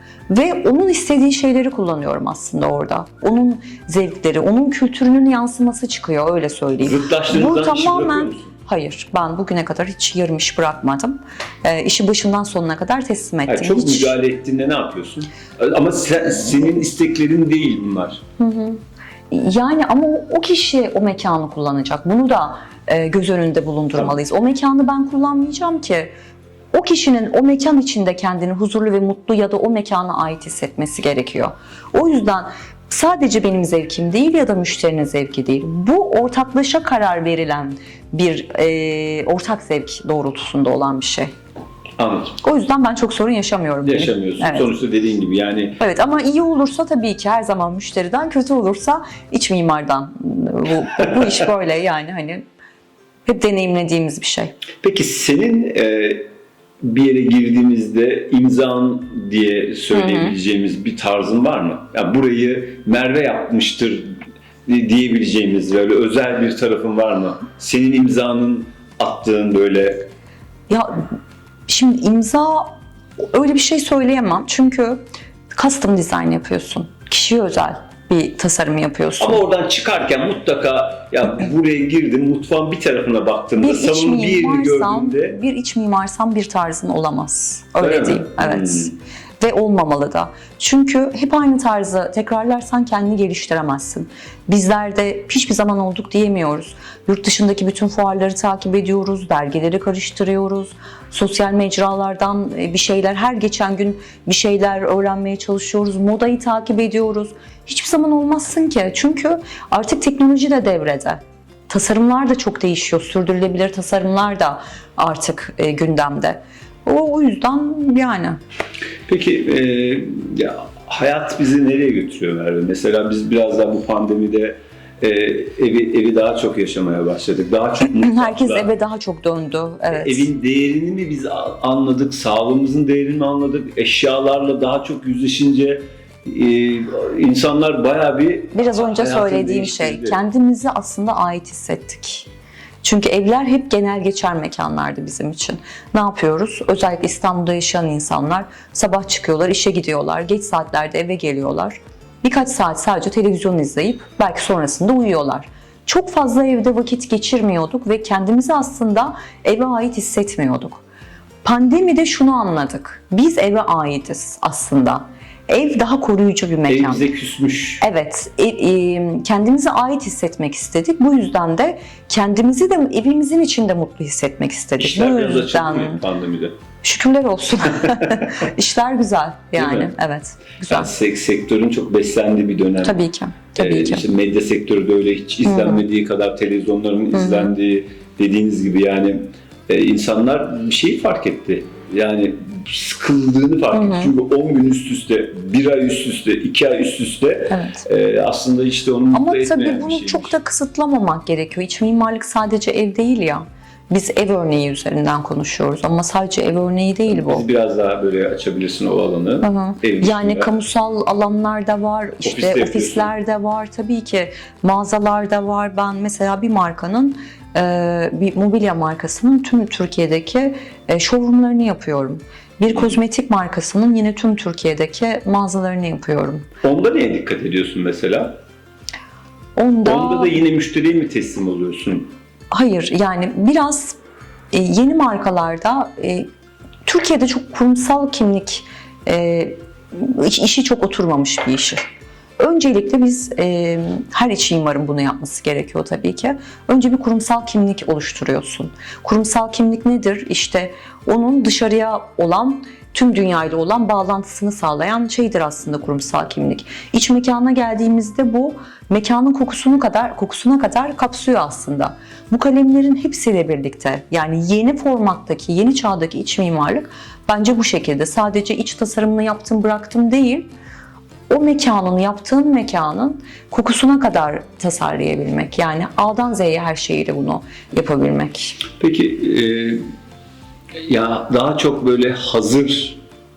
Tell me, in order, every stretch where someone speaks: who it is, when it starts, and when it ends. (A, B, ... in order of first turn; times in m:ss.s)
0:00.3-0:14.2 A
0:06.8-0:08.5 B
0:13.5-0:18.2 B
0:18.4-0:26.1 A
0:26.7-0:41.3 A
0:42.0-0:42.4 B
0:42.4-0:44.7 A
0:43.8-0:45.8 B
0:45.8-0:52.4 A
0:53.2-0:54.5 A
0:54.8-0:56.3 B
0:56.8-1:10.0 B
0:59.9-1:00.4 A
1:10.7-1:11.0 A
1:11.7-1:12.7 A
1:13.3-1:15.0 A
1:15.5-1:19.4 A
1:19.2-1:25.4 B
1:23.6-1:58.4 A
1:27.8-1:28.9 B
1:59.1-2:08.7 B
2:07.9-2:10.3 A
2:09.9-2:20.2 B
2:18.5-2:22.3 A
2:22.8-2:40.8 A
2:41.4-2:47.0 A
2:46.7-2:47.8 B
2:47.8-2:56.0 A
2:54.8-2:56.6 B
2:56.8-3:00.9 A
2:59.5-2:59.9 B
3:00.7-3:03.0 B
3:02.8-3:04.0 A
3:03.6-3:20.3 B
3:05.4-3:05.8 A
3:07.1-3:07.6 A
3:13.7-3:14.1 A
3:17.5-3:17.8 A
3:19.1-3:27.4 A
3:27.1-3:30.5 B
3:29.4-3:46.4 A
3:32.2-3:33.1 B
3:46.6-3:48.4 B
3:49.6-3:50.4 A
3:49.8-3:52.1 B
3:52.5-3:54.0 A
3:54.5-3:56.3 A
3:56.8-4:01.8 A
4:02.4-4:30.5 A
4:31.3-4:38.6 A
4:38.8-4:39.8 B
4:40.9-4:43.0 B